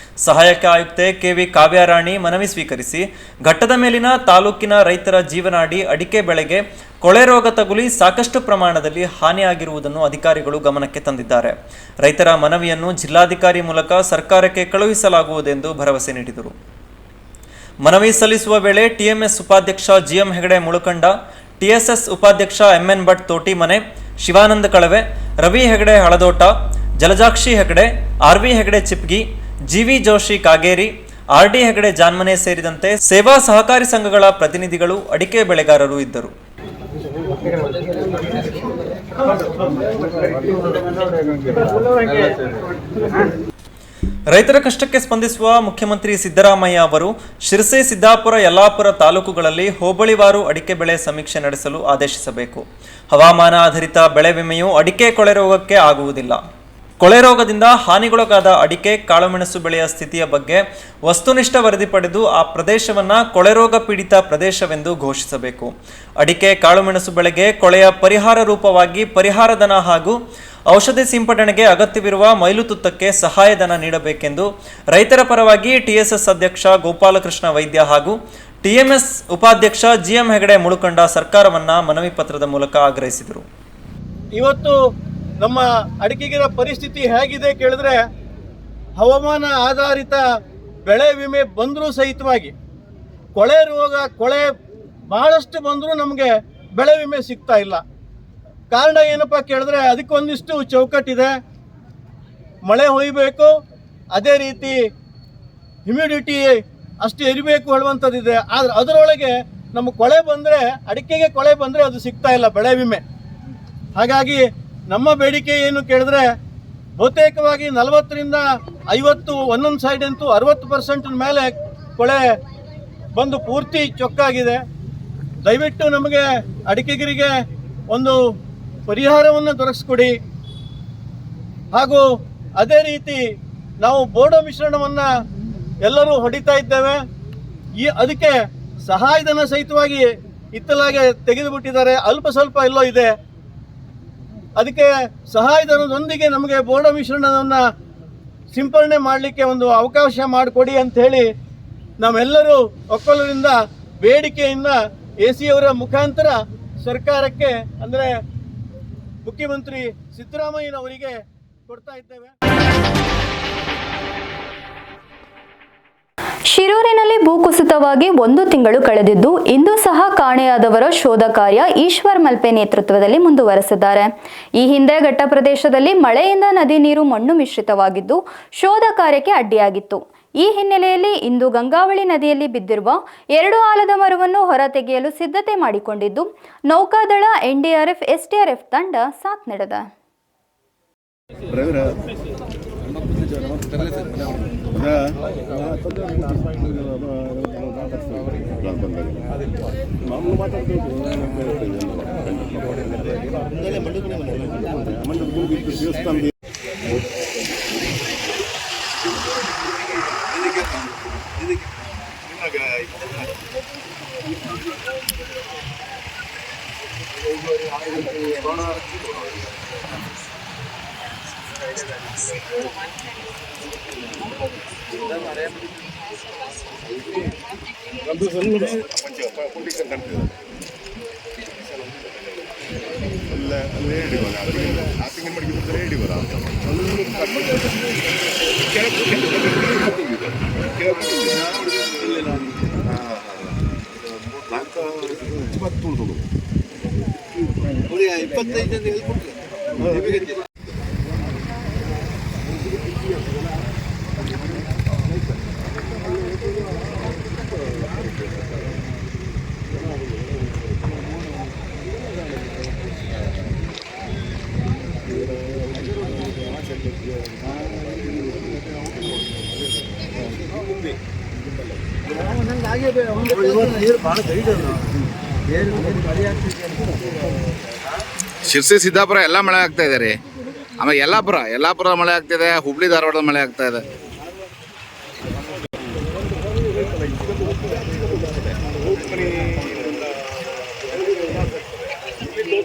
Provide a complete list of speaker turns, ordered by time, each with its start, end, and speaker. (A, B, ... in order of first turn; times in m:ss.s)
0:00.2-0:16.6 A
0:17.8-0:36.3 A
0:39.2-0:40.4 B
0:44.3-0:56.4 A
0:57.0-1:10.2 A
1:10.7-1:23.4 A
1:24.4-1:24.8 B
1:25.4-1:28.0 B
1:29.0-1:30.2 B
1:30.9-1:32.5 B
1:33.4-1:34.5 B
1:35.1-1:37.8 B
1:38.7-1:41.3 B
1:42.7-1:43.5 B
1:44.1-1:44.8 B
1:45.9-1:53.0 B
1:54.0-1:56.3 B
1:57.0-2:02.2 B
2:03.2-2:04.6 B
2:05.4-2:07.3 B
2:07.9-2:08.2 B
2:08.9-2:10.2 B
2:11.7-2:12.0 B
2:12.6-2:13.2 B
2:13.8-2:15.1 B
2:15.8-2:17.0 B
2:17.8-2:18.4 B
2:18.9-2:23.1 B
2:24.6-2:27.6 B
2:28.5-2:31.3 B
2:32.0-2:38.1 B
2:39.2-2:41.2 B
2:41.7-2:42.3 B
2:46.5-2:54.1 C
2:54.6-3:09.9 C
3:15.9-3:16.5 D
3:18.8-3:19.2 D
3:30.4-3:30.7 E
3:37.5-3:38.9 E
3:48.6-3:50.2 D
3:53.7-3:57.2 D
3:58.8-4:00.3 D
4:01.0-4:01.4 D
4:01.4-4:02.4 E
4:07.9-4:09.3 E
4:09.9-4:10.4 E
4:32.1-4:34.9 E
4:35.5-4:36.9 E
4:38.5-4:40.2 F
4:40.8-4:43.8 F
4:47.6-4:48.1 D
4:49.4-4:49.7 D